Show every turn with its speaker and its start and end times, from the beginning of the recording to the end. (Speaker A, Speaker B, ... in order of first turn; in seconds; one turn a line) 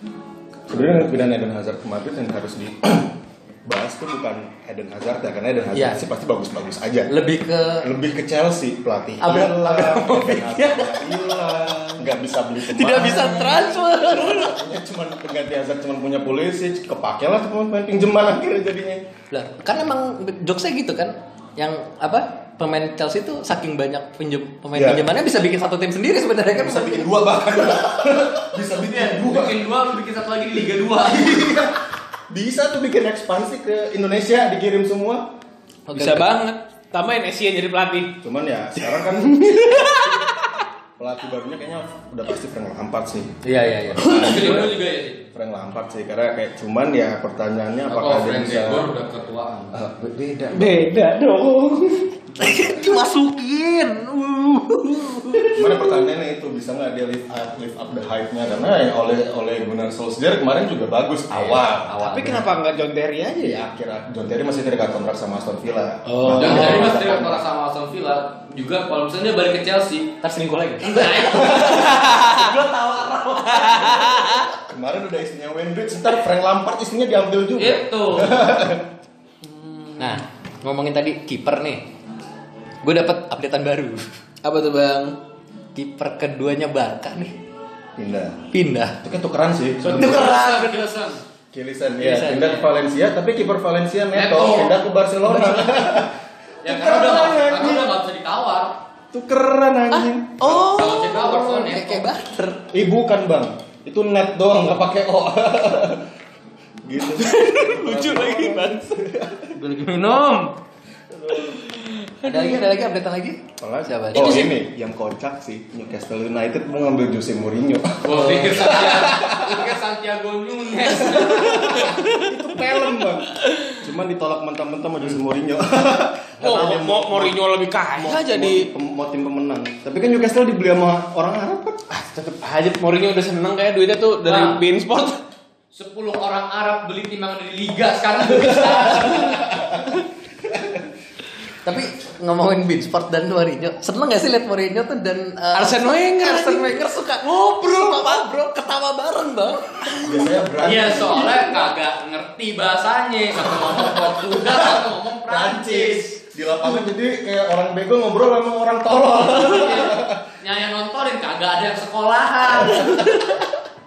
Speaker A: 0.7-7.2
Speaker B: 5.7-6.0
Speaker B: 7.1-7.9
Speaker A: 7.8-19.0
Speaker B: 9.2-12.1
Speaker B: 12.6-14.6
Speaker B: 19.3-27.1
Speaker A: 24.7-25.1
Speaker A: 26.5-29.6
Speaker C: 28.8-31.5
Speaker A: 31.1-31.8
Speaker A: 32.3-35.3
Speaker B: 35.9-36.4
Speaker D: 35.9-38.2
Speaker A: 38.2-40.2
Speaker D: 38.8-40.4
Speaker A: 41.0-44.7
Speaker B: 43.4-44.7
Speaker C: 44.0-45.2
Speaker A: 45.3-48.9
Speaker C: 47.9-49.8
Speaker A: 49.7-51.0
Speaker D: 50.5-52.2
Speaker B: 52.4-55.5
Speaker A: 52.5-52.7
Speaker A: 55.5-62.0
Speaker B: 61.4-62.5
Speaker D: 62.0-63.6
Speaker A: 63.4-67.4
Speaker D: 66.0-66.9
Speaker C: 66.3-70.2
Speaker B: 70.2-74.1
Speaker C: 70.8-73.9
Speaker A: 71.3-71.8
Speaker D: 71.5-72.5
Speaker D: 73.5-74.5
Speaker A: 74.5-78.9
Speaker C: 77.6-78.5
Speaker B: 80.0-81.9
Speaker B: 82.8-84.1
Speaker D: 84.4-85.2
Speaker B: 85.7-87.4
Speaker A: 88.0-88.5
Speaker B: 88.5-89.0
Speaker A: 89.0-90.4
Speaker B: 89.8-90.9
Speaker C: 89.9-91.2
Speaker A: 91.5-98.0
Speaker B: 92.0-92.7
Speaker C: 94.1-94.8
Speaker B: 95.3-96.0
Speaker C: 96.6-98.8
Speaker A: 99.1-100.7
Speaker B: 99.9-102.6
Speaker C: 100.4-102.1
Speaker A: 102.7-106.1
Speaker A: 106.8-109.5
Speaker D: 107.1-109.0
Speaker C: 109.5-110.2
Speaker D: 109.8-110.5
Speaker A: 111.1-111.6
Speaker D: 111.5-112.6
Speaker B: 112.2-114.5
Speaker A: 113.6-119.6
Speaker C: 118.0-121.9
Speaker A: 121.0-127.4
Speaker D: 121.5-122.3
Speaker D: 123.3-123.8
Speaker D: 126.4-128.7
Speaker A: 128.0-131.8
Speaker D: 131.9-135.2
Speaker C: 134.2-134.6
Speaker C: 135.7-139.6
Speaker A: 140.5-140.8
Speaker B: 141.6-150.1
Speaker D: 145.5-146.8
Speaker D: 147.6-148.2
Speaker D: 150.0-150.3
Speaker A: 150.0-151.5
Speaker C: 150.6-156.2
Speaker A: 153.5-160.3
Speaker C: 159.3-162.8
Speaker B: 162.5-163.5